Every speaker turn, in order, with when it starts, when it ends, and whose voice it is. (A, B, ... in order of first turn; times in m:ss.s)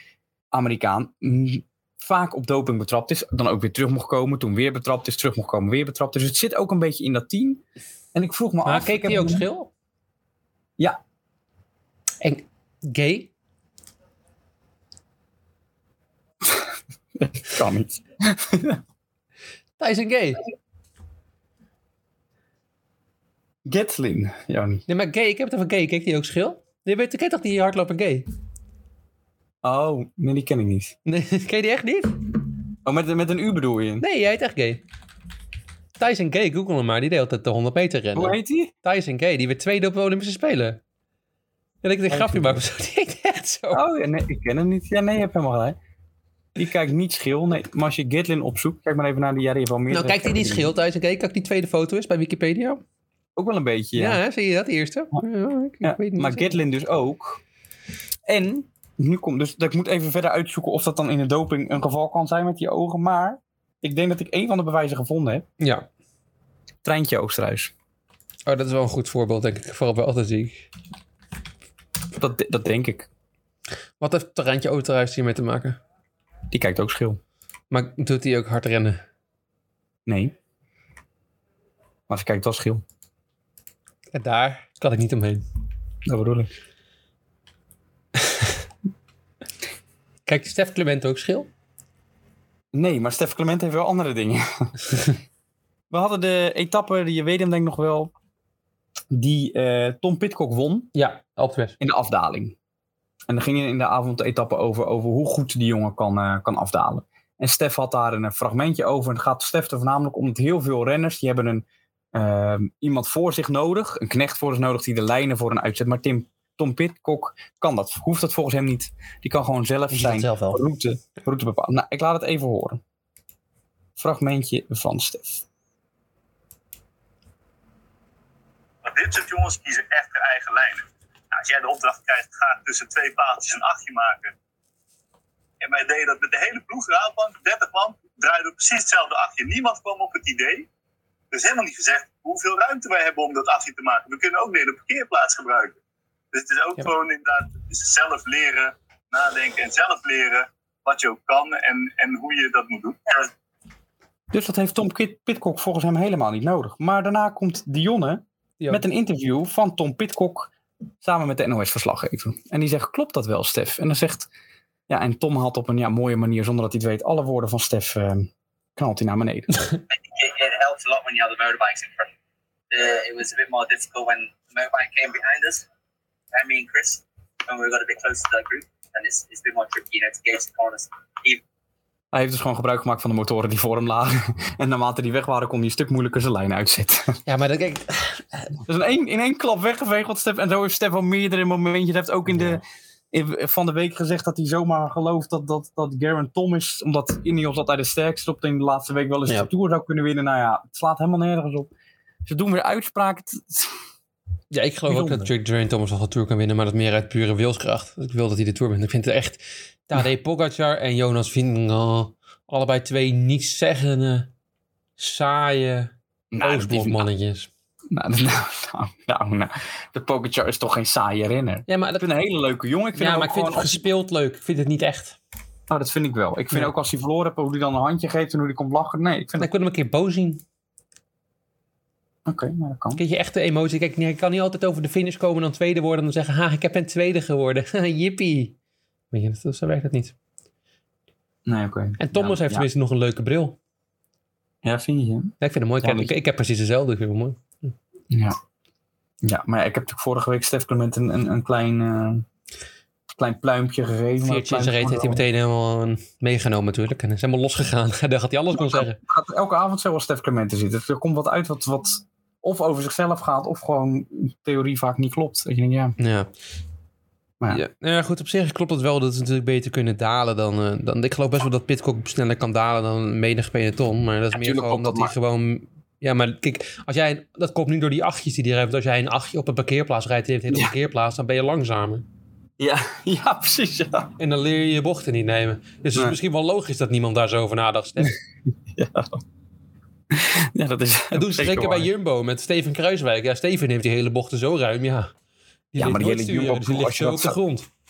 0:00.5-0:07.6 A
0:08.1-0:09.4 A
0:08.6-0:09.7 B
0:12.2-0:13.3 B
0:16.4-0:18.8 A
0:19.8-0:20.4 B
0:23.6-0:24.9 A
0:24.9-0:28.3 B
0:29.6-0:31.0 A
0:31.1-0:32.2 B
0:32.8-0:34.0 A
0:34.0-0:34.8 B
0:36.0-0:40.8 B
0:38.2-0:38.7 A
0:41.8-0:43.8 B
0:42.1-0:42.6 A
0:43.7-0:45.8 A
0:46.6-0:50.7 A
0:49.9-0:52.8 B
0:53.4-0:54.2 A
0:54.0-0:56.5 B
0:55.8-0:57.4 A
0:58.3-1:05.5 A
1:05.6-1:05.9 B
1:06.8-1:07.7 A
1:08.5-1:10.7 B
1:12.2-1:13.1 A
1:14.0-1:15.8 B
1:16.5-1:17.2 A
1:17.7-1:19.0 B
1:20.1-1:20.3 A
1:22.1-1:22.8 A
1:24.1-1:25.4 B
1:26.1-1:26.5 A
1:30.3-1:31.5 B
1:32.7-1:35.1 A
1:35.9-1:38.1 A
1:39.1-1:40.9 A
1:40.9-1:41.8 B
1:41.8-1:42.6 A
1:43.3-2:02.8 A
1:59.9-2:00.6 B
2:04.0-2:05.4 A
2:08.8-2:14.3 C
2:15.6-2:20.7 C
2:21.3-2:25.8 C
2:26.3-2:33.3 C
2:34.3-2:40.5 A
2:41.0-2:44.3 A
2:44.9-2:49.6 A
2:49.9-2:52.1 D
2:52.7-2:55.6 D
2:56.3-3:01.4 D
3:02.1-3:07.2 A
3:07.3-3:08.6 B
3:08.7-3:21.7 A
3:22.2-3:23.8 A
3:24.5-3:34.3 B
3:24.9-3:25.3 A
3:35.0-3:37.5 B
3:36.3-3:37.0 A
3:37.9-3:43.8 A
3:41.7-3:42.0 B
3:43.0-3:45.2 B
3:45.7-3:49.5 A
3:49.4-3:50.4 B
3:52.3-3:53.0 A
3:53.0-3:58.6 B
3:59.1-4:00.1 B
4:01.5-4:02.7 A
4:02.0-4:03.6 B
4:04.6-4:06.1 A
4:05.4-4:07.7 B
4:08.1-4:08.4 A
4:09.2-4:12.3 A
4:13.1-4:15.2 A
4:14.2-4:19.0 B
4:18.5-4:26.0 A
4:26.0-4:26.3 B
4:27.5-4:42.0 B
4:34.3-4:35.1 A
4:42.6-4:44.1 A
4:44.2-4:48.2 B
4:48.7-4:49.2 A
4:50.1-4:51.9 A
4:51.1-4:55.1 B
4:55.7-4:57.7 B
4:55.8-4:57.4 A